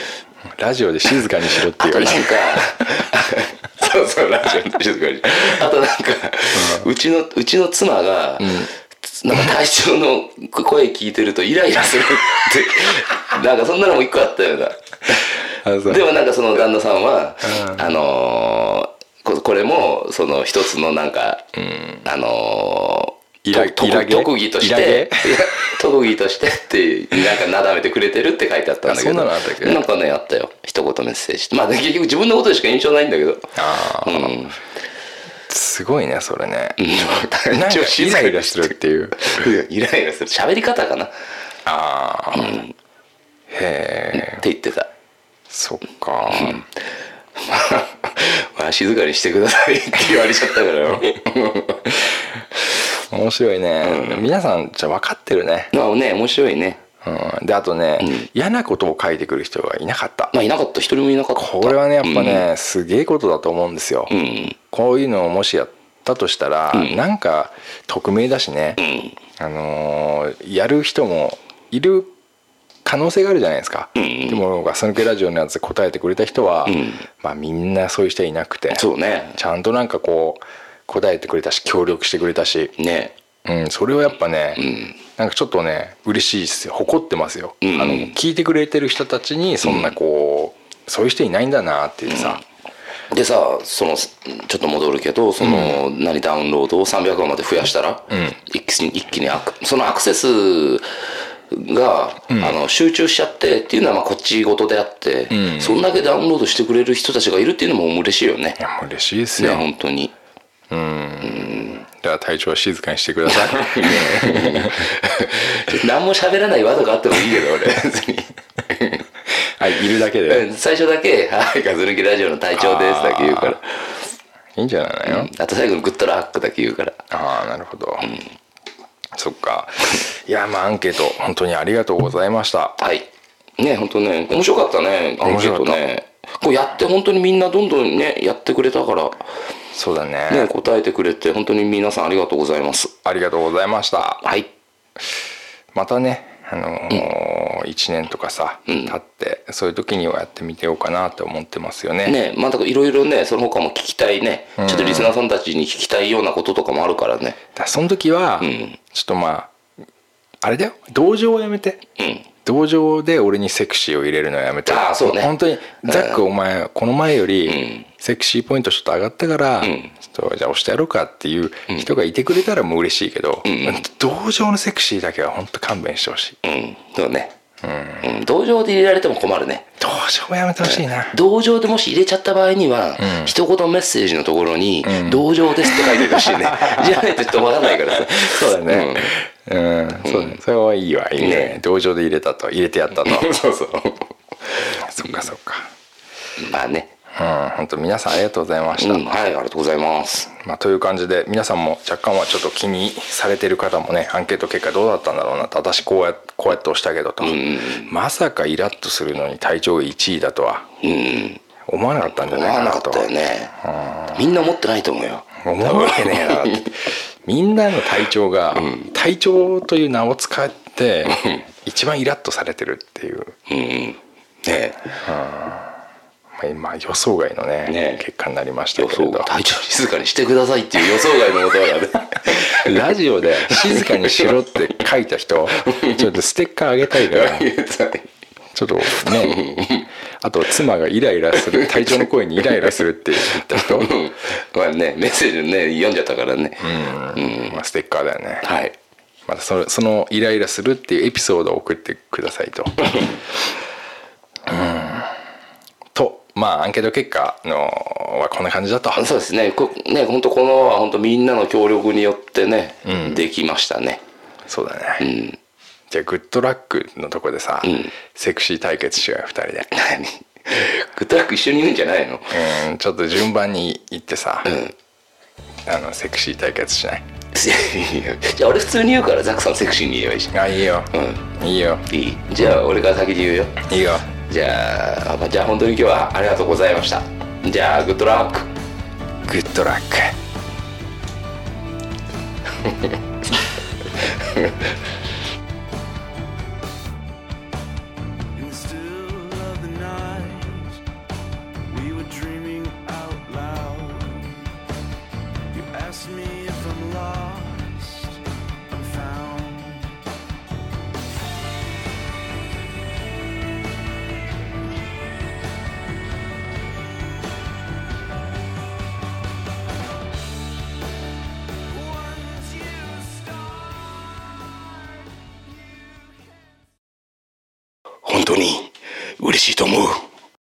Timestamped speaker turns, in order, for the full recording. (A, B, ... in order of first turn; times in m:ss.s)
0:00.5-0:02.8 A
0:01.8-0:21.5 B
0:06.5-0:06.9 A
0:08.4-0:08.7 A
0:15.6-0:16.1 A
0:17.4-0:17.9 A
0:21.6-0:22.0 A
0:22.0-0:34.6 B
0:23.4-0:25.5 A
0:28.8-0:29.8 A
0:33.5-0:34.4 A
0:35.5-0:36.8 A
0:36.8-0:41.1 B
0:37.5-0:39.4 A
0:41.6-0:42.6 A
0:42.3-0:42.7 B
0:43.5-0:44.4 A
0:44.1-0:44.9 B
0:45.5-0:46.6 A
0:46.3-0:46.7 B
0:47.4-0:52.0 B
0:53.1-0:55.7 A
0:53.8-0:54.2 B
0:55.7-0:56.8 B
0:57.0-1:00.3 A
0:58.0-0:58.3 B
1:00.3-1:02.5 B
1:01.3-1:04.1 A
1:04.1-1:04.6 B
1:04.7-1:08.8 A
1:06.7-1:07.0 B
1:08.8-1:09.2 B
1:09.4-1:12.1 A
1:12.8-1:22.7 A
1:14.0-1:14.4 B
1:16.6-1:17.0 B
1:18.7-1:19.4 B
1:22.8-1:23.1 B
1:23.4-1:32.4 A
1:24.6-1:25.0 B
1:27.6-1:28.2 B
1:29.6-1:29.9 B
1:32.1-1:32.4 B
1:33.1-1:48.6 B
1:35.4-1:35.8 A
1:42.3-1:42.6 A
1:45.3-1:45.8 A
1:48.6-1:49.7 A
1:49.4-1:50.1 B
1:50.7-1:54.9 A
1:51.2-1:51.8 B
1:53.3-1:59.0 B
1:59.6-2:00.4 A
2:00.3-2:04.0 B
2:02.6-2:03.6 A
2:04.6-2:05.3 A
2:05.0-2:07.0 B
2:07.1-2:08.1 A
2:08.0-2:08.3 B
2:09.1-2:12.8 A
2:12.8-2:13.1 B
2:13.6-2:19.2 B
2:15.2-2:15.8 A
2:19.7-2:20.5 A
2:20.3-2:22.9 B
2:23.0-2:24.2 A
2:24.2-2:24.5 B
2:25.7-2:32.2 A
2:28.7-2:29.0 B
2:32.0-2:37.4 B
2:34.6-2:35.2 A
2:37.6-2:39.5 A
2:38.4-2:38.8 B
2:40.4-2:41.8 A
2:42.0-2:42.2 B
2:42.4-2:56.4 A
2:44.6-2:45.3 B
2:45.8-2:46.2 B
2:47.4-2:47.8 B
2:49.6-2:49.9 B
2:53.4-2:53.8 B
2:56.4-2:57.3 B
2:57.6-2:58.1 A
2:58.0-2:59.6 B
2:59.8-3:01.2 A
3:00.6-3:09.1 B
3:03.0-3:03.3 A
3:04.8-3:13.4 A
3:10.0-3:10.4 B
3:11.2-3:11.6 B
3:13.0-3:15.2 B
3:14.8-3:15.7 A
3:16.4-3:16.9 B
3:17.1-3:19.0 A
3:18.8-3:20.3 B
3:20.3-3:30.7 A
3:27.2-3:27.9 B
3:30.8-3:31.4 B
3:31.7-3:33.1 A
3:32.2-3:33.6 B
3:33.6-3:34.2 A
3:34.1-3:36.7 B
3:35.4-3:43.4 A
3:38.5-3:38.9 B
3:41.0-3:41.4 B
3:43.5-3:45.0 B
3:45.0-3:45.7 A
3:46.3-3:49.3 A
3:47.6-3:48.0 B
3:48.8-3:52.8 B
3:52.2-3:57.5 A
3:53.5-3:54.3 B
3:55.5-3:56.1 B
3:56.9-3:58.1 B
3:58.5-3:59.4 A
3:58.9-3:59.9 B
4:00.2-4:03.9 A
4:01.3-4:07.6 B
4:06.6-4:08.5 A
4:08.4-4:08.7 B
4:09.3-4:13.2 A
4:14.4-4:15.2 A
4:15.9-4:19.0 A
4:18.9-4:24.0 B
4:22.8-4:23.3 A
4:24.5-4:25.1 A
4:25.0-4:25.4 B
4:25.9-4:29.7 A
4:27.6-4:27.9 B
4:29.7-4:32.3 B
4:32.3-4:34.5 A
4:34.4-4:34.7 B
4:35.6-4:37.1 A
4:37.3-4:40.4 B
4:40.3-4:41.8 A
4:40.9-4:41.2 B
4:41.9-4:43.6 B
4:43.6-4:44.1 A
4:44.2-4:48.5 B
4:49.2-4:50.2 A
4:54.2-4:54.5 B
4:58.3-5:00.8 C
5:01.6-5:04.3 C
5:05.5-5:10.0 C
5:21.7-5:24.3 C
5:25.5-5:26.3 C
5:28.0-5:30.0 B